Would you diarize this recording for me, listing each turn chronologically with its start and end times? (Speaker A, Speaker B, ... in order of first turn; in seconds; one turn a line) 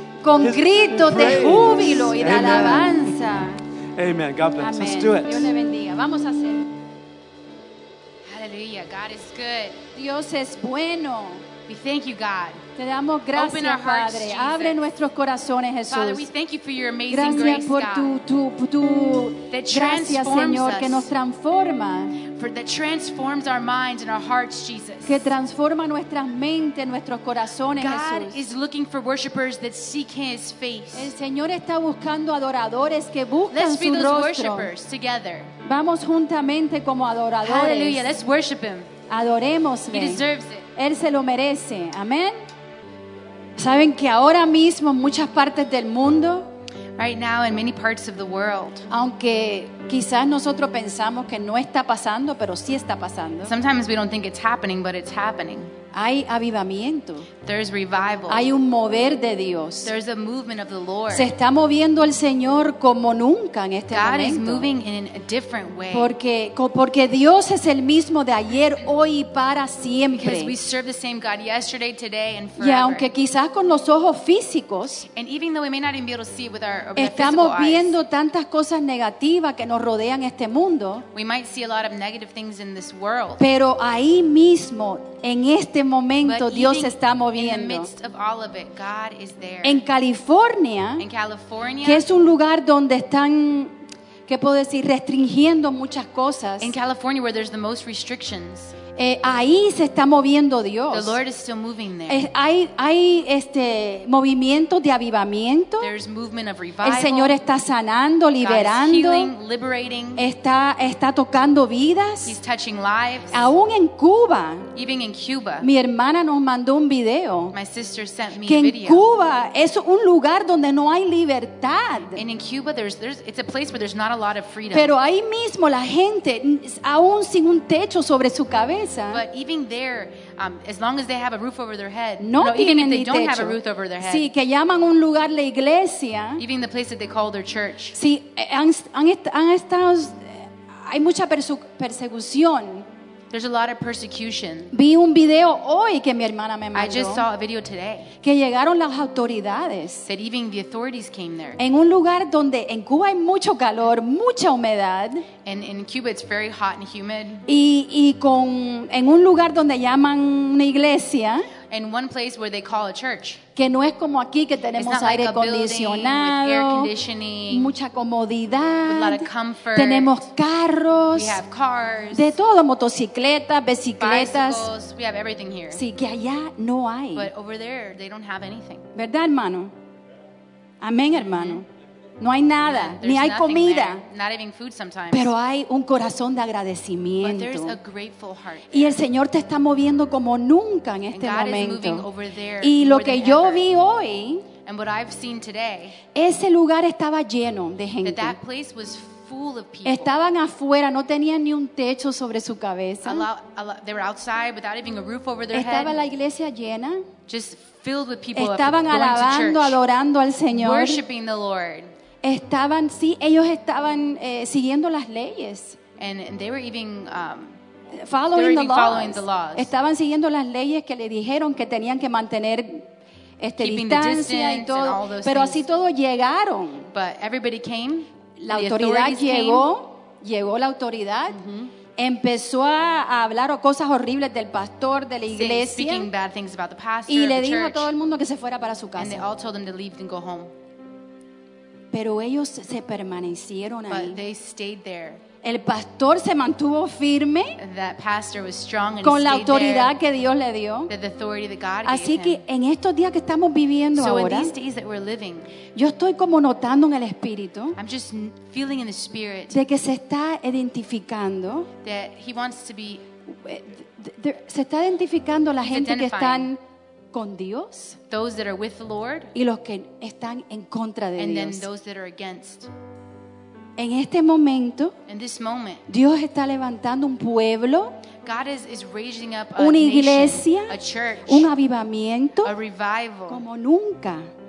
Speaker A: 0.2-3.6
Speaker B: 0.4-3.2
Speaker B: 3.9-5.5
Speaker A: 4.6-6.7
Speaker C: 8.2-9.8
Speaker A: 9.9-11.5
Speaker C: 11.7-12.6
Speaker A: 12.8-16.3
Speaker C: 13.3-14.8
Speaker C: 15.9-18.2
Speaker A: 17.1-22.2
Speaker C: 19.5-21.1
Speaker C: 22.3-25.3
Speaker A: 25.0-28.4
Speaker C: 27.7-31.1
Speaker A: 30.9-34.7
Speaker C: 33.5-35.5
Speaker A: 35.6-38.1
Speaker C: 37.4-38.9
Speaker A: 39.1-40.2
Speaker C: 39.9-40.7
Speaker A: 40.7-42.4
Speaker A: 43.6-46.5
Speaker C: 47.0-48.9
Speaker A: 48.9-53.5
Speaker C: 53.4-55.7
Speaker A: 55.9-57.3
Speaker C: 57.4-58.5
Speaker A: 58.3-59.9
Speaker C: 59.8-61.3
Speaker A: 61.1-64.7
Speaker C: 63.9-66.1
Speaker A: 65.9-70.5
Speaker C: 70.1-73.1
Speaker A: 72.6-75.1
Speaker C: 75.1-77.9
Speaker A: 77.0-81.0
Speaker C: 81.1-83.4
Speaker A: 83.4-87.9
Speaker C: 86.2-89.8
Speaker A: 89.6-91.0
Speaker C: 91.0-92.0
Speaker A: 91.8-93.7
Speaker A: 94.3-96.7
Speaker C: 96.6-98.7
Speaker A: 99.0-101.2
Speaker C: 100.9-102.2
Speaker A: 102.1-105.9
Speaker C: 105.8-107.4
Speaker A: 106.8-109.3
Speaker C: 108.4-110.2
Speaker A: 110.2-112.4
Speaker C: 112.2-113.5
Speaker A: 113.3-114.7
Speaker C: 114.7-115.7
Speaker A: 115.6-117.5
Speaker C: 117.5-119.1
Speaker A: 118.4-122.2
Speaker C: 122.2-124.9
Speaker A: 124.7-129.2
Speaker C: 129.1-134.3
Speaker A: 132.2-136.4
Speaker C: 136.4-137.9
Speaker A: 137.9-142.9
Speaker C: 143.3-144.7
Speaker A: 144.7-147.2
Speaker C: 146.7-148.1
Speaker A: 148.2-150.1
Speaker C: 150.0-151.6
Speaker A: 151.6-155.3
Speaker C: 155.4-157.5
Speaker A: 157.5-161.5
Speaker C: 161.7-163.4
Speaker A: 163.6-166.9
Speaker C: 164.8-167.7
Speaker A: 167.5-171.4
Speaker C: 168.8-170.3
Speaker C: 171.1-172.3
Speaker A: 172.1-174.7
Speaker C: 174.0-175.8
Speaker A: 175.7-177.3
Speaker C: 177.1-178.9
Speaker A: 178.9-179.7
Speaker A: 180.8-181.7
Speaker C: 181.1-181.6
Speaker A: 182.2-184.0
Speaker C: 182.6-185.3
Speaker A: 185.1-187.8
Speaker C: 187.2-189.0
Speaker A: 188.7-192.1
Speaker C: 191.1-193.7
Speaker A: 192.6-194.5
Speaker C: 194.6-196.0
Speaker A: 196.1-198.4
Speaker C: 198.0-200.1
Speaker A: 199.8-203.3
Speaker C: 203.0-205.9
Speaker A: 205.5-207.1
Speaker C: 207.3-209.8
Speaker A: 208.3-211.0
Speaker C: 210.5-211.9
Speaker A: 212.2-215.8
Speaker C: 216.0-217.6
Speaker A: 217.9-222.9
Speaker C: 218.3-219.7
Speaker A: 223.4-226.9
Speaker C: 223.6-225.6
Speaker C: 226.9-229.7
Speaker A: 228.4-231.4
Speaker C: 231.3-231.7
Speaker A: 231.9-236.1
Speaker C: 235.3-237.9
Speaker A: 237.1-239.2
Speaker C: 239.0-240.5
Speaker A: 241.9-244.2
Speaker C: 243.9-245.2
Speaker A: 245.4-247.6
Speaker C: 247.6-249.9
Speaker A: 249.0-250.9
Speaker C: 250.9-252.4
Speaker A: 251.8-254.5
Speaker C: 253.9-255.5
Speaker A: 255.7-257.8
Speaker C: 257.8-259.6
Speaker A: 259.5-261.7
Speaker C: 261.8-263.0
Speaker A: 263.3-266.6
Speaker C: 265.6-266.5
Speaker A: 267.1-268.0
Speaker C: 268.1-269.3
Speaker A: 269.3-271.7
Speaker C: 271.2-272.7
Speaker A: 273.8-274.9
Speaker C: 275.1-275.8
Speaker A: 275.9-278.0
Speaker C: 278.2-281.5
Speaker A: 279.6-282.5
Speaker C: 282.4-283.4
Speaker A: 283.3-284.2